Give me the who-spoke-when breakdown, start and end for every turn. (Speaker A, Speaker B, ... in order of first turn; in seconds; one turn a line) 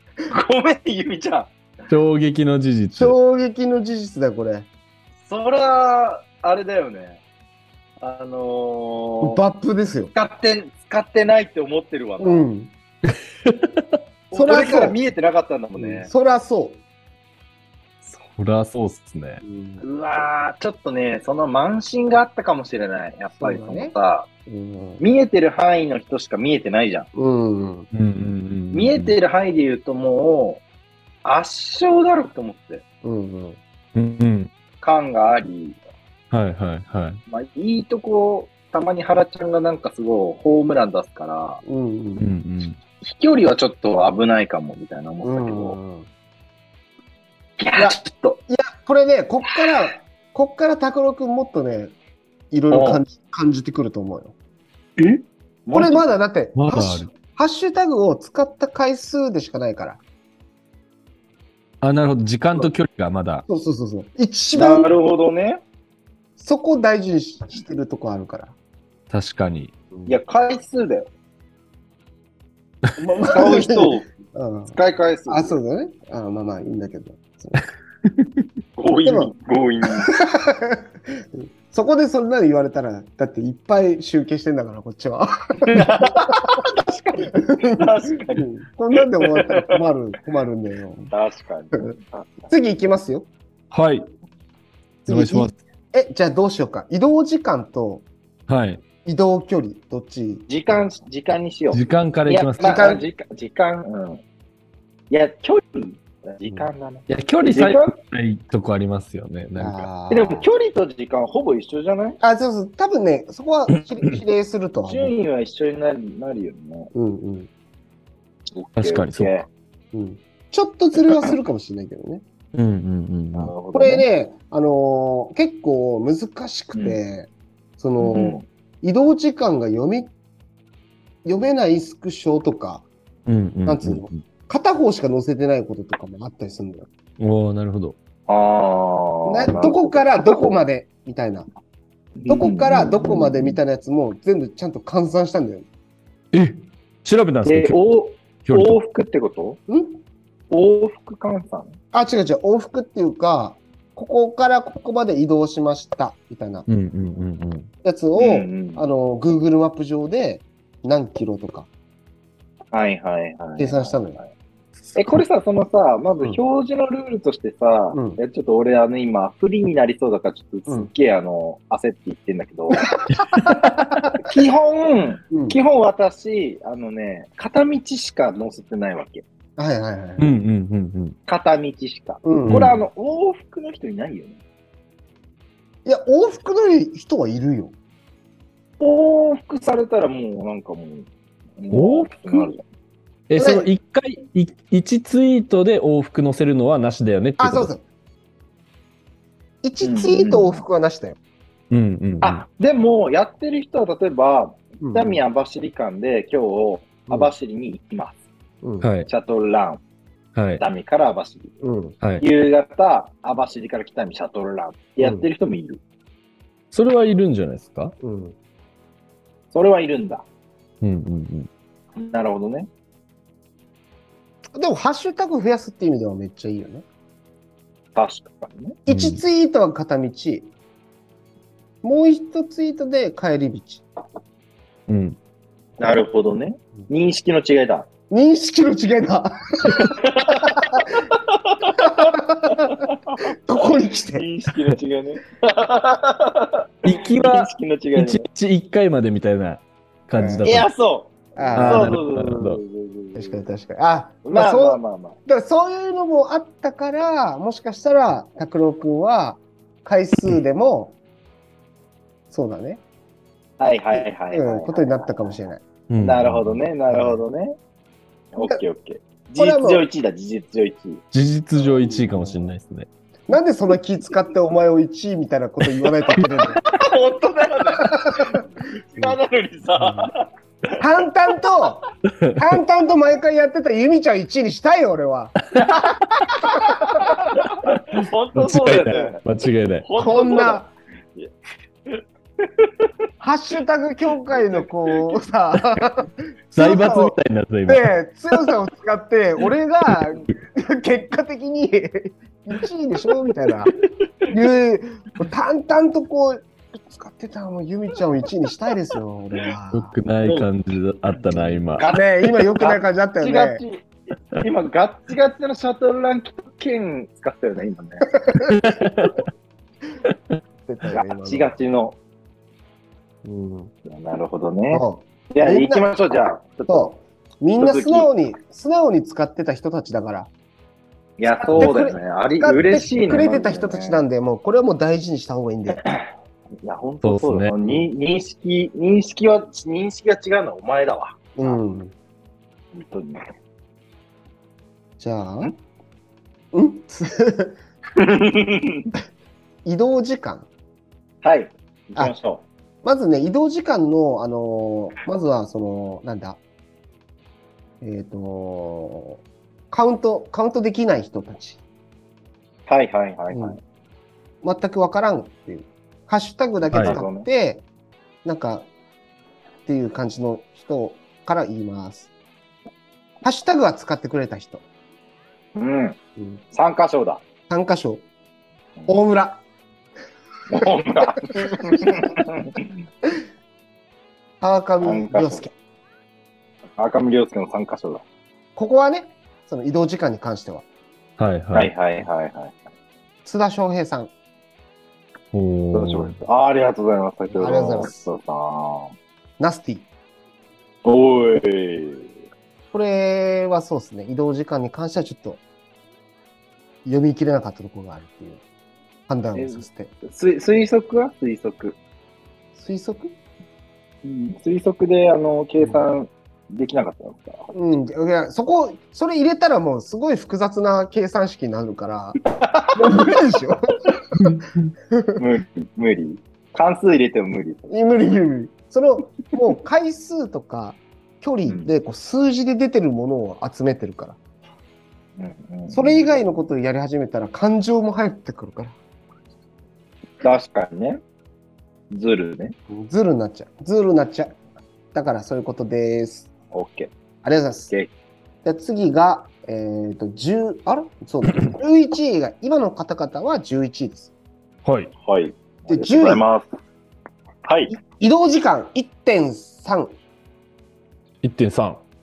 Speaker A: 0.3-1.5
Speaker B: 1.9-3.2
Speaker C: 2.9-4.7
Speaker A: 5.2-7.2
Speaker A: 8.0-9.4
Speaker C: 9.2-10.1
Speaker A: 10.1-12.5
Speaker C: 12.2-12.7
Speaker B: 13.4-13.9
Speaker A: 14.3-16.1
Speaker C: 14.3-15.0
Speaker C: 15.8-16.8
Speaker B: 18.2-19.4
Speaker C: 19.4-19.8
Speaker A: 19.8-24.3
Speaker C: 23.4-23.9
Speaker C: 24.4-25.0
Speaker A: 25.0-27.1
Speaker C: 27.1-27.9
Speaker B: 27.9-29.2
Speaker A: 28.7-30.6
Speaker A: 31.2-32.8
Speaker C: 33.0-33.6
Speaker B: 33.9-34.5
Speaker A: 34.8-35.8
Speaker B: 36.3-37.2
Speaker A: 37.3-41.6
Speaker C: 41.6-42.2
Speaker B: 42.2-42.8
Speaker A: 43.0-45.8
Speaker C: 45.2-46.1
Speaker A: 47.6-48.4
Speaker C: 47.8-51.9
Speaker C: 52.5-54.4
Speaker A: 52.7-53.0
Speaker A: 55.0-56.0
Speaker C: 55.7-60.0
Speaker B: 56.5-57.1
Speaker B: 61.8-63.4
Speaker C: 63.5-64.9
Speaker A: 64.5-65.6
Speaker C: 66.4-68.5
Speaker B: 69.1-69.7
Speaker A: 70.0-71.1
Speaker C: 73.0-74.7
Speaker A: 73.2-74.1
Speaker A: 74.7-75.6
Speaker C: 75.3-77.6
Speaker A: 78.8-80.1
Speaker C: 79.0-79.3
Speaker C: 79.9-86.6
Speaker A: 85.7-89.8
Speaker C: 87.2-91.1
Speaker A: 91.1-92.3
Speaker C: 92.5-93.3
Speaker B: 93.7-94.1
Speaker C: 95.0-98.0
Speaker B: 95.1-95.5
Speaker B: 98.5-98.8
Speaker C: 99.0-100.5
Speaker A: 100.5-104.2
Speaker B: 101.7-102.9
Speaker C: 102.6-103.0
Speaker A: 105.1-107.9
Speaker B: 107.1-109.9
Speaker C: 109.5-110.5
Speaker A: 110.1-112.2
Speaker C: 112.2-115.1
Speaker A: 114.9-116.9
Speaker C: 116.9-117.5
Speaker A: 118.5-119.5
Speaker B: 118.8-119.3
Speaker C: 119.9-122.2
Speaker B: 122.5-123.5
Speaker A: 123.3-124.0
Speaker C: 123.7-130.1
Speaker A: 126.7-127.0
Speaker A: 128.0-128.4
Speaker C: 131.2-132.8
Speaker B: 133.3-134.2
Speaker C: 133.7-136.9
Speaker B: 137.2-137.9
Speaker A: 138.3-140.6
Speaker C: 139.2-141.5
Speaker A: 142.2-143.6
Speaker C: 142.3-145.7
Speaker B: 146.3-147.8
Speaker A: 147.4-149.6
Speaker B: 148.4-148.8
Speaker C: 149.7-150.0
Speaker A: 150.5-151.8
Speaker C: 151.9-156.7
Speaker B: 156.7-157.7
Speaker C: 157.8-161.7
Speaker A: 158.2-158.8
Speaker A: 162.7-164.3
Speaker C: 163.6-164.2
Speaker B: 164.9-165.2
Speaker A: 164.9-173.0
Speaker C: 167.9-168.2
Speaker C: 173.1-174.3
Speaker B: 173.3-173.9
Speaker A: 174.2-179.2
Speaker C: 175.3-175.6
Speaker C: 179.6-180.3
Speaker B: 180.2-181.2
Speaker A: 181.3-184.4
Speaker C: 182.2-182.7
Speaker B: 182.5-182.8
Speaker C: 185.8-187.7
Speaker A: 188.8-191.1
Speaker A: 191.6-192.6
Speaker B: 191.7-192.5
Speaker B: 193.3-197.7
Speaker C: 193.3-193.7
Speaker C: 197.4-197.8
Speaker C: 199.6-201.2
Speaker A: 199.8-200.6
Speaker B: 201.7-202.4
Speaker A: 202.2-208.2
Speaker C: 204.8-205.2
Speaker C: 208.6-208.9
Speaker B: 208.8-209.1
Speaker A: 209.1-209.8
Speaker B: 210.3-210.6
Speaker A: 210.6-211.5
Speaker C: 211.6-212.0
Speaker A: 212.2-215.8
Speaker C: 215.0-215.3
Speaker B: 216.7-217.9
Speaker C: 218.0-218.3
Speaker A: 219.5-220.2
Speaker B: 220.8-221.5
Speaker A: 221.9-222.7
Speaker C: 224.5-226.8
Speaker A: 227.9-228.8
Speaker C: 228.8-230.5
Speaker B: 228.9-229.2
Speaker C: 231.8-233.8
Speaker B: 234.9-235.2
Speaker A: 235.8-237.9
Speaker C: 238.1-240.9
Speaker A: 239.7-248.2
Speaker C: 241.8-244.2
Speaker B: 246.8-250.7
Speaker C: 250.2-250.6
Speaker A: 250.4-253.4
Speaker C: 251.3-252.0
Speaker B: 251.6-252.6
Speaker C: 253.1-261.0
Speaker A: 254.2-255.2
Speaker C: 262.3-262.8
Speaker A: 263.6-265.4
Speaker C: 264.3-265.6
Speaker B: 265.9-266.6
Speaker A: 266.0-267.6
Speaker C: 266.9-267.2
Speaker A: 268.3-271.0
Speaker C: 269.4-269.9
Speaker B: 271.1-272.9
Speaker C: 271.6-272.5
Speaker C: 273.3-276.6
Speaker A: 276.2-280.3
Speaker C: 277.8-278.4
Speaker C: 279.8-280.1
Speaker C: 280.8-287.1
Speaker B: 282.1-282.4
Speaker A: 286.4-289.2
Speaker B: 287.9-289.9
Speaker A: 289.8-291.3
Speaker C: 289.9-290.7
Speaker A: 291.9-292.9
Speaker C: 293.2-303.7
Speaker A: 294.3-295.2
Speaker B: 296.5-297.9
Speaker C: 304.3-309.9
Speaker B: 309.7-311.8
Speaker C: 311.2-313.6
Speaker A: 311.8-318.1
Speaker C: 318.2-318.5
Speaker B: 318.4-319.2
Speaker C: 320.7-321.5
Speaker A: 320.9-322.0
Speaker C: 323.2-323.7
Speaker A: 323.8-326.9
Speaker C: 324.7-325.9
Speaker C: 326.7-330.3
Speaker A: 327.6-328.1
Speaker A: 331.2-334.0
Speaker C: 331.3-335.8
Speaker A: 336.6-341.6
Speaker B: 337.0-337.8
Speaker C: 341.4-341.9
Speaker A: 342.7-343.3
Speaker C: 345.0-345.5
Speaker C: 346.5-347.6
Speaker A: 347.9-348.9
Speaker C: 349.6-350.5
Speaker A: 351.2-352.4
Speaker C: 352.8-356.4
Speaker C: 357.8-361.6
Speaker A: 362.7-363.6
Speaker C: 363.3-363.6
Speaker C: 364.4-367.6
Speaker B: 366.7-367.0
Speaker A: 366.8-367.2
Speaker C: 368.2-368.7
Speaker C: 369.6-372.1
Speaker C: 373.2-374.6
Speaker A: 375.5-376.0
Speaker C: 376.2-376.4
Speaker A: 376.5-377.2
Speaker C: 377.5-378.0
Speaker C: 378.9-379.4
Speaker A: 380.5-382.7
Speaker C: 381.3-381.9
Speaker C: 384.4-385.5
Speaker A: 384.8-385.4
Speaker A: 386.8-388.0
Speaker C: 388.6-390.6
Speaker B: 391.2-391.7
Speaker A: 391.5-392.6
Speaker C: 393.2-394.1
Speaker B: 395.3-396.2
Speaker A: 395.7-398.9
Speaker C: 397.3-398.1
Speaker C: 399.4-399.9
Speaker A: 400.8-402.1
Speaker C: 402.7-405.4
Speaker C: 406.8-408.4
Speaker C: 409.1-409.9
Speaker A: 409.3-411.8
Speaker C: 412.6-413.1
Speaker A: 414.0-417.5
Speaker C: 417.5-422.2
Speaker A: 422.3-423.0
Speaker C: 422.7-424.3
Speaker B: 424.1-424.7
Speaker C: 424.9-425.2
Speaker A: 425.2-427.7
Speaker C: 427.7-434.2
Speaker A: 435.2-436.1
Speaker C: 435.7-438.8
Speaker A: 440.2-441.0
Speaker A: 441.9-442.5
Speaker C: 442.7-444.4
Speaker C: 444.9-446.3
Speaker A: 446.5-446.9
Speaker C: 447.2-447.7
Speaker C: 448.4-454.1
Speaker B: 454.6-454.9
Speaker A: 455.0-456.5
Speaker C: 455.7-456.2
Speaker A: 457.4-457.8
Speaker C: 457.7-459.9
Speaker B: 461.2-461.8